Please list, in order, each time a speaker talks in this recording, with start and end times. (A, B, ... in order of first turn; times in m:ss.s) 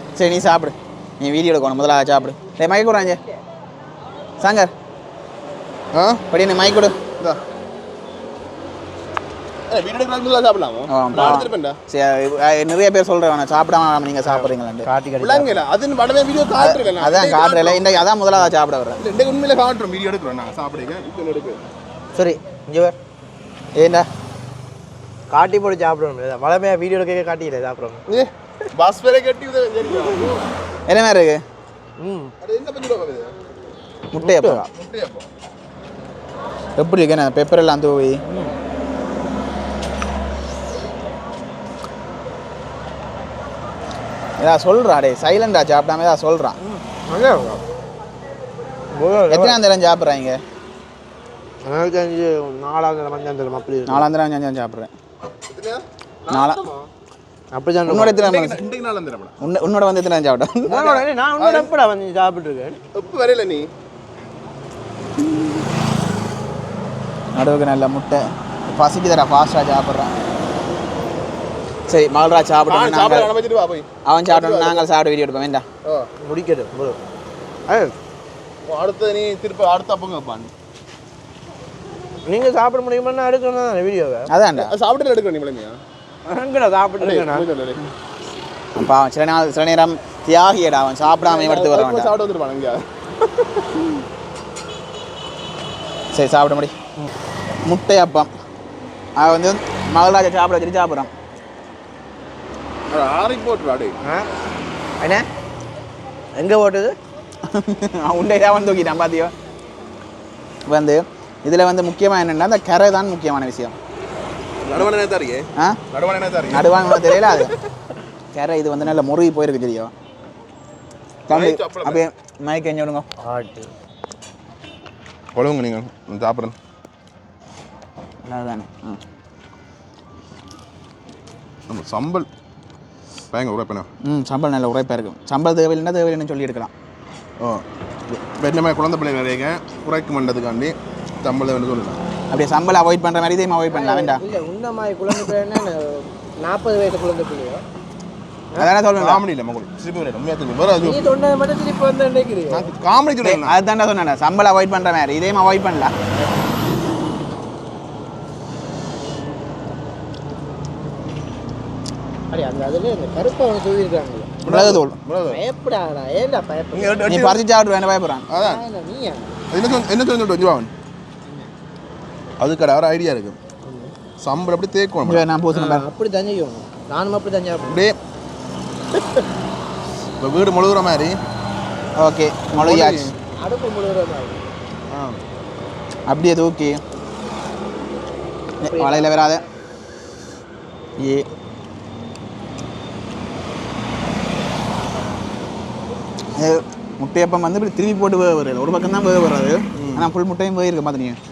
0:00.2-0:03.2 A
0:04.4-0:04.7 A
0:05.9-0:06.2 B
0:06.3-0:07.0 A
0:09.7-0:11.8 B
0:10.9-0:14.9 A
0:14.2-0:15.6 C
0:15.2-0:17.9 B
0:16.6-0:19.0 A
0:19.0-0:21.6 B
0:22.2-0:23.0 C
0:23.8-0:24.1 A
0:25.3-0:28.0 C
0:28.1-0:30.4 B
0:30.9-0:31.4 A
0:32.0-0:32.3 C
0:32.4-0:33.3 B
0:34.1-0:34.7 A
0:34.2-0:34.6 C
0:34.7-0:35.3 B
0:36.8-0:38.2 A
0:44.4-0:46.6 A
0:46.6-0:47.6 C
0:49.0-0:49.6 C
0:49.3-0:50.4 A
0:51.7-0:54.0 C
0:53.9-0:54.9 A
0:55.5-0:56.9 B
0:56.3-0:56.6 A
0:57.5-0:58.2 C
0:57.9-0:58.6 A
0:58.1-0:59.3 B
0:59.4-1:00.8 A
1:00.7-1:01.7 B
1:00.7-1:02.8 C
1:02.9-1:03.7 B
1:07.4-1:10.1 A
1:11.9-1:13.3 A
1:12.7-1:14.8 B
1:14.1-1:15.6 A
1:16.2-1:17.0 C
1:17.7-1:17.9 C
1:18.7-1:20.5 B
1:22.3-1:24.3 C
1:24.3-1:24.7 A
1:24.6-1:25.8 B
1:26.3-1:27.5 C
1:27.0-1:27.8 B
1:28.8-1:32.1 A
1:31.3-1:32.8 B
1:36.1-1:36.7 A
1:37.6-1:38.3 A
1:39.2-1:41.1 A
1:42.9-1:44.0 B
1:44.0-1:44.3 C
1:45.0-1:45.3 C
1:46.4-1:47.0 C
1:47.5-1:49.3 A
1:50.7-1:53.7 A
1:54.6-1:57.4 B
1:55.6-1:55.8 A
1:56.5-1:57.5 A
1:58.3-1:59.9 A
2:01.3-2:03.1 A
2:01.3-2:02.0 B
2:03.2-2:03.7 C
2:05.4-2:06.5 B
2:08.3-2:09.0 A
2:11.7-2:12.3 B
2:13.3-2:13.9 B
2:14.0-2:16.7 A
2:17.4-2:22.0 B
2:22.3-2:24.2 A
2:23.7-2:27.6 C
2:28.6-2:29.2 A
2:29.0-2:31.0 B
2:30.8-2:32.7 C
2:32.5-2:33.5 B
2:33.2-2:35.9 A
2:42.3-2:44.4 C
2:44.4-2:45.4 B
2:44.5-2:45.0 A
2:45.3-2:47.1 C
2:46.7-2:47.4 B
2:47.1-2:48.3 A
2:48.3-2:48.6 B
2:48.3-2:49.4 C
2:49.5-2:50.7 B
2:52.4-2:53.4 B
2:53.7-2:53.9 C
2:54.2-2:55.2 B
2:55.0-2:55.9 A
2:55.5-2:57.8 C
2:57.7-2:58.0 B
3:00.2-3:01.2 B
3:02.0-3:03.1 A
3:02.5-3:03.1 B
3:03.4-3:04.5 C
3:04.9-3:05.2 B
3:06.1-3:06.8 A
3:08.6-3:09.4 A
3:08.6-3:09.4 C
3:11.0-3:11.3 A
3:16.4-3:21.2 A
3:19.8-3:20.1 B